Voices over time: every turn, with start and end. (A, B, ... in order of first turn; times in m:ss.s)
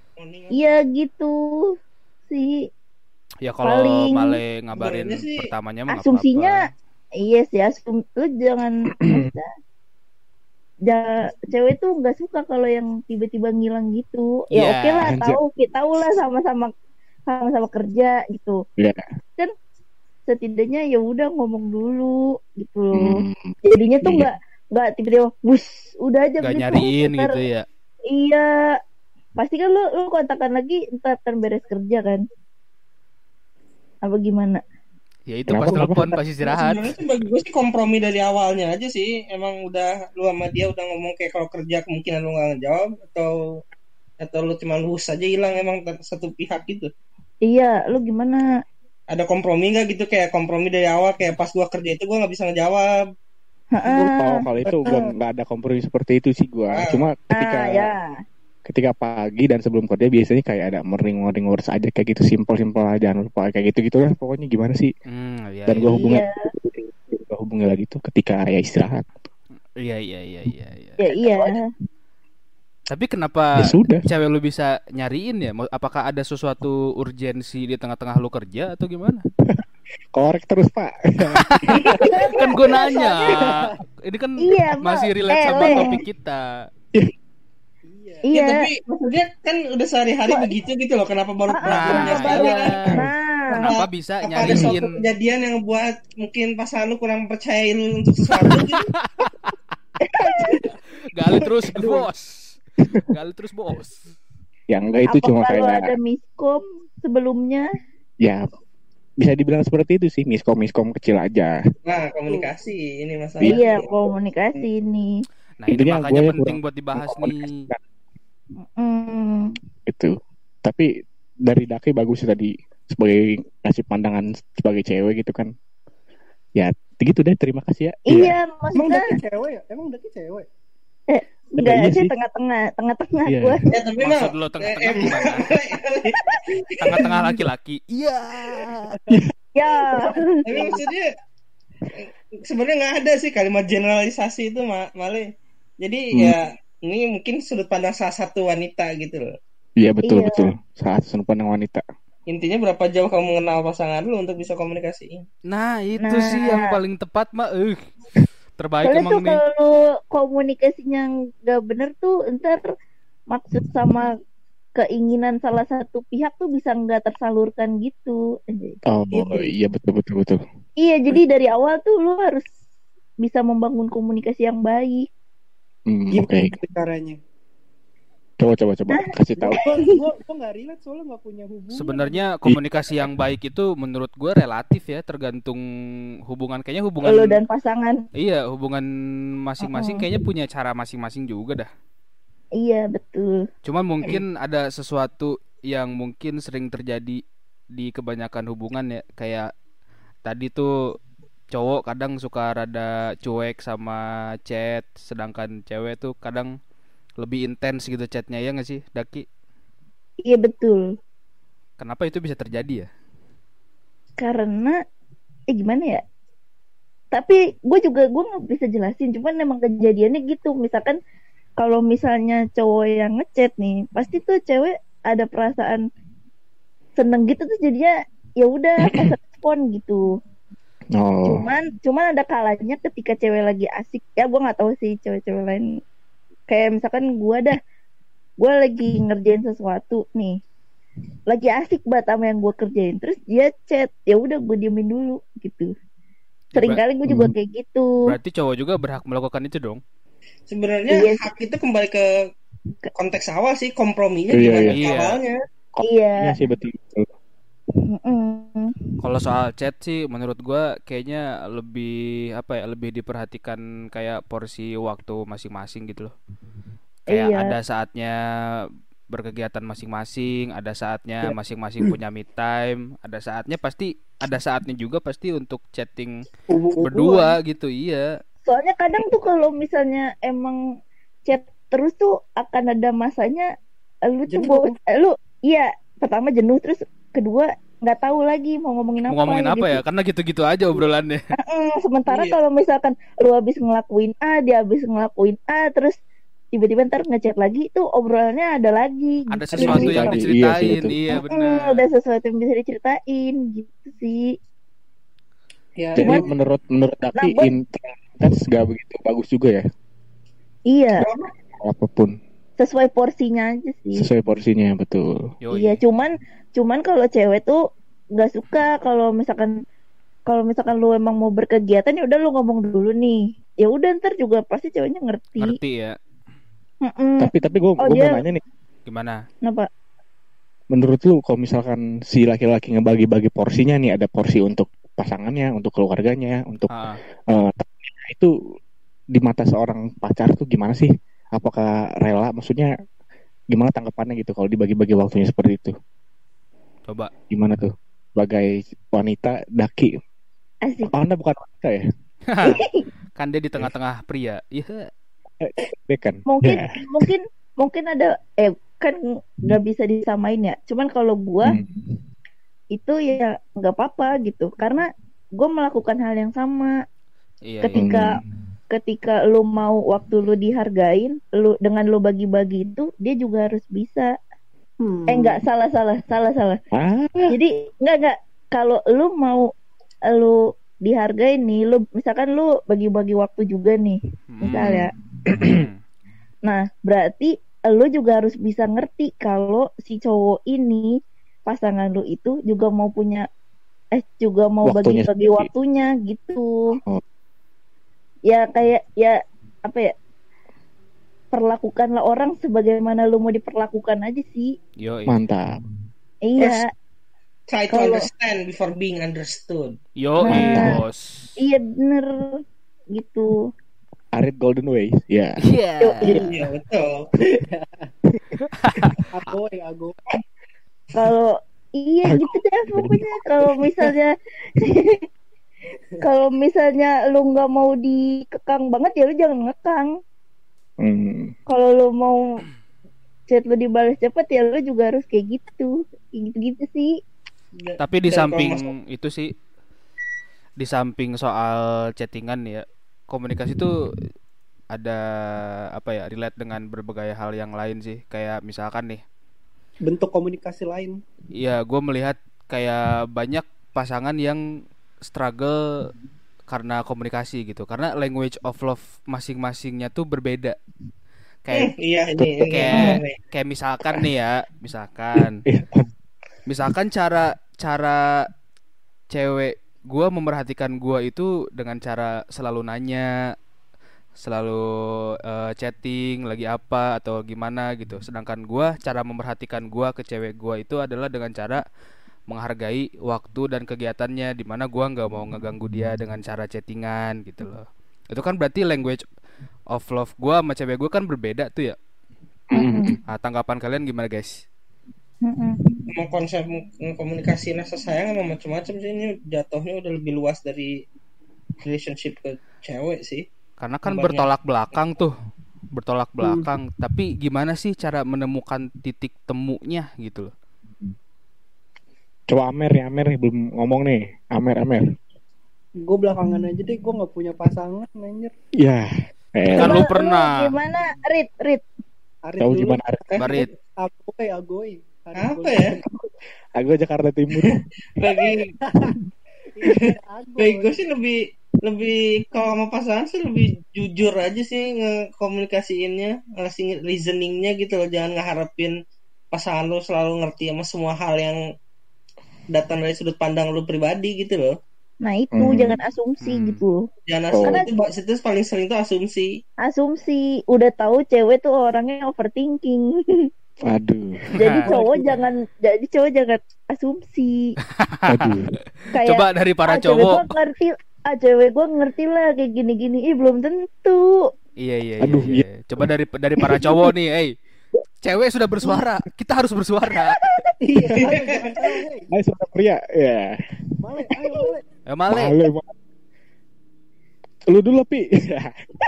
0:00.2-0:00.6 A
0:00.5-0:01.7 B
0:02.3-0:02.6 B
0:03.4-0:06.7 C
0:03.6-0:04.4 B
0:04.8-0:05.4 A
0:05.9-0:06.5 B
0:07.2-0:09.5 B
0:09.0-0:09.3 D
0:10.9-0:16.7 B
0:14.5-0:15.1 C
0:15.0-0:15.4 D
0:17.3-0:18.6 B
0:18.8-0:19.0 D
0:20.3-0:27.4 B
0:22.9-0:24.3 D
0:26.4-0:27.7 C
0:28.1-0:28.5 B
0:29.4-0:32.2 B
0:34.0-0:34.6 B
0:35.3-0:37.0 C
0:35.5-0:36.1 D
0:35.7-0:36.2 E
0:36.4-0:43.4 A
0:44.2-0:46.9 A
0:47.5-0:48.5 B
0:49.1-0:52.9 A
0:53.7-0:54.4 B
0:53.9-0:57.9 D
0:54.6-0:55.1 E
0:56.7-0:57.1 A
0:57.4-0:58.0 B
0:58.6-1:04.9 D
1:05.1-1:06.0 C
1:05.7-1:09.1 D
1:05.9-1:06.3 B
1:09.8-1:11.0 C
1:11.0-1:11.6 B
1:11.2-1:11.6 D
1:12.9-1:19.2 C
1:13.6-1:14.0 D
1:20.1-1:21.8 D
1:21.4-1:26.7 C
1:21.8-1:23.5 B
1:21.8-1:22.3 E
1:23.3-1:23.8 E
1:24.4-1:25.9 B
1:27.9-1:28.3 E
1:28.3-1:28.7 B
1:28.3-1:32.8 A
1:31.5-1:33.8 B
1:31.7-1:32.9 C
1:33.5-1:34.9 C
1:33.5-1:38.9 A
1:34.4-1:34.7 D
1:39.0-1:39.6 C
1:40.0-1:40.6 B
1:41.1-1:42.6 C
1:41.8-1:42.1 E
1:42.8-1:43.1 D
1:43.1-1:44.1 C
1:44.7-1:45.9 D
1:45.1-1:47.7 B
1:49.2-1:51.5 D
1:51.9-1:53.9 A
1:53.4-1:55.1 B
1:55.6-1:57.7 C
1:55.7-1:57.8 D
1:58.8-1:59.5 B
1:59.9-2:00.9 D
2:01.5-2:05.5 D
2:06.6-2:08.4 D
2:08.1-2:09.1 B
2:08.8-2:10.5 E
2:11.1-2:13.6 B
2:11.6-2:12.1 D
2:13.3-2:13.6 D
2:13.7-2:17.1 A
2:14.0-2:15.5 C
2:16.1-2:16.4 B
2:16.8-2:19.0 C
2:18.9-2:19.3 E
2:19.6-2:20.8 B
2:19.8-2:20.8 E
2:20.4-2:21.1 A
2:22.0-2:25.3 A
2:25.8-2:29.3 A
2:29.8-2:31.8 D
2:30.1-2:30.5 B
2:32.3-2:35.2 A
2:35.5-2:37.8 C
2:36.0-2:36.7 B
2:38.6-2:39.4 C
2:38.8-2:42.7 B
2:43.3-2:44.1 B
2:44.8-2:48.8 B
2:48.9-2:50.4 D
2:49.1-2:49.5 E
2:50.8-2:52.5 B
2:53.2-2:55.1 B
2:55.9-2:56.6 D
2:56.1-2:57.2 E
2:58.4-2:59.6 D
2:59.4-3:02.2 E
2:59.6-2:59.8 B
3:01.7-3:05.6 C
3:02.5-3:03.1 D
3:06.3-3:07.4 C
3:07.0-3:08.0 B
3:08.2-3:08.9 C
3:09.4-3:11.7 C
3:09.6-3:10.0 B
3:12.6-3:13.4 B
3:13.6-3:17.2 C
3:17.7-3:19.5 C
3:20.2-3:20.7 C
3:21.5-3:26.5 C
3:27.2-3:29.3 C
3:30.2-3:30.9 B
3:31.8-3:32.9 C
3:34.2-3:34.8 B
3:35.5-3:36.0 B
3:37.1-3:41.0 B
3:41.6-3:45.8 B
3:47.0-3:50.0 B
3:50.9-3:51.4 D
3:51.3-3:55.7 B
3:56.5-3:57.6 B
3:58.4-4:00.4 B
4:01.3-4:05.7 B
4:06.5-4:06.8 C
4:06.6-4:07.9 B
4:07.1-4:07.3 D
4:08.1-4:09.8 C
4:10.5-4:12.0 A
4:10.9-4:11.2 B
4:13.0-4:15.4 A
4:14.3-4:14.8 D
4:14.7-4:15.2 C
4:15.8-4:17.1 D
4:15.8-4:16.4 B
4:17.9-4:18.7 B
4:19.0-4:26.1 C
4:27.1-4:36.2 C
4:27.1-4:27.5 B
4:36.5-4:37.4 E
4:36.8-4:38.1 C
4:38.5-4:40.6 B
4:41.3-4:43.5 B
4:44.1-4:49.8 B
4:44.3-4:44.8 E
4:49.1-4:51.2 C
4:51.4-4:56.0 B
4:52.1-4:52.4 A
4:56.5-5:00.0 B
4:59.3-5:01.8 C
4:59.6-5:00.2 E
4:59.6-5:01.0 D
5:01.3-5:04.3 B
5:05.8-5:06.3 E
5:06.0-5:09.6 D
5:06.0-5:06.2 B
5:07.2-5:07.5 B
5:10.7-5:11.1 B
5:11.0-5:11.3 A
5:11.6-5:12.2 D
5:12.6-5:14.0 B
5:14.0-5:15.2 D
5:15.4-5:15.8 C
5:15.5-5:17.6 B
5:18.2-5:19.5 B
5:20.3-5:25.6 B
5:25.4-5:26.0 C
5:26.8-5:28.3 B
5:27.2-5:28.4 D
5:28.9-5:29.2 C
5:30.7-5:36.7 D
5:36.7-5:37.0 C
5:37.3-5:38.3 D
5:39.1-5:42.7 D
5:43.5-5:45.7 D
5:47.3-5:50.0 D
5:50.6-5:50.9 B
5:50.9-5:51.8 D
5:52.3-5:52.6 C
5:52.4-5:52.8 B
5:53.2-5:54.9 C
5:55.4-5:57.1 D
5:56.3-6:01.6 B
6:01.4-6:02.0 D
6:02.7-6:06.7 B
6:07.5-6:07.9 C
6:07.6-6:08.1 B
6:07.8-6:08.2 D
6:08.7-6:14.1 B
6:14.8-6:15.4 E
6:15.1-6:16.6 B
6:16.7-6:17.4 D
6:17.3-6:19.5 B
6:20.1-6:24.9 B
6:24.3-6:24.8 C
6:24.5-6:25.7 D
6:25.4-6:25.8 C
6:26.5-6:30.9 B
6:31.5-6:33.3 B
6:33.9-6:36.8 B
6:34.6-6:35.5 D
6:38.3-6:39.9 B
6:41.3-6:44.5 B
6:44.8-6:45.2 C
6:45.1-6:45.6 D
6:46.3-6:46.7 B
6:46.4-6:46.6 A
6:47.5-6:49.8 A
6:47.7-6:48.0 B
6:50.0-6:51.3 C
6:50.2-6:50.8 B
6:50.3-6:50.8 D
6:51.4-6:52.4 B
6:52.9-6:53.3 B
6:54.2-6:55.4 D
6:55.4-6:56.0 C
6:55.8-6:56.3 B
6:56.0-6:57.1 A
6:57.3-6:57.9 E
6:58.1-6:58.4 D
6:58.5-6:59.0 C
6:59.1-7:00.0 E
7:01.0-7:05.0 B
7:02.0-7:03.9 D
7:06.0-7:09.9 B
7:10.8-7:11.3 D
7:11.5-7:12.2 B
7:13.3-7:17.0 B
7:17.6-7:18.7 A
7:17.8-7:19.3 C
7:20.6-7:23.7 C
7:24.7-7:29.0 C
7:29.8-7:31.0 E
7:31.4-7:34.4 C
7:35.1-7:35.9 C
7:36.5-7:40.6 C
7:41.4-7:45.4 C
7:41.5-7:43.2 A
7:42.7-7:43.0 B
7:45.4-7:45.9 D
7:46.5-7:48.3 C
7:49.1-7:53.1 C
7:54.2-8:01.6 C
8:02.3-8:09.0 C
8:09.7-8:11.8 C
8:12.5-8:13.0 D
8:12.6-8:12.9 B
8:13.1-8:14.4 C
8:15.2-8:15.6 B
8:15.9-8:20.8 A
8:21.6-8:23.2 A
8:23.6-8:25.1 C
8:23.9-8:24.3 A
8:25.8-8:30.3 C
8:26.2-8:26.5 E
8:32.3-8:34.8 D
8:35.9-8:38.3 E
8:38.6-8:39.8 D
8:39.5-8:40.5 C
8:39.6-8:41.6 B
8:42.2-8:45.8 E
8:42.4-8:43.1 D
8:43.1-8:43.5 A
8:43.2-8:43.5 C
8:45.2-8:45.8 A
8:45.9-8:47.6 D
8:47.4-8:48.6 A
8:48.6-8:49.0 E
8:49.6-8:50.7 E
8:50.4-8:58.7 A
8:59.3-9:01.4 A
9:02.5-9:04.6 A
9:05.0-9:06.8 B
9:05.3-9:05.8 D
9:06.2-9:06.6 C
9:07.1-9:09.3 A
9:07.3-9:07.6 D
9:07.4-9:07.9 B
9:09.6-9:13.3 B
9:13.6-9:14.3 D
9:14.4-9:17.6 B
9:14.4-9:14.7 C
9:14.7-9:15.2 E
9:17.8-9:18.3 C
9:18.1-9:18.5 D
9:18.9-9:24.0 B
9:19.0-9:20.3 C
9:24.6-9:27.3 C
9:25.0-9:25.9 D
9:28.0-9:30.2 C
9:30.1-9:30.5 B
9:30.6-9:32.1 E
9:30.9-9:31.2 D
9:31.0-9:31.8 A
9:32.1-9:33.4 D
9:33.8-9:34.6 E
9:34.9-9:35.4 C
9:35.1-9:35.7 D
9:37.5-9:38.5 D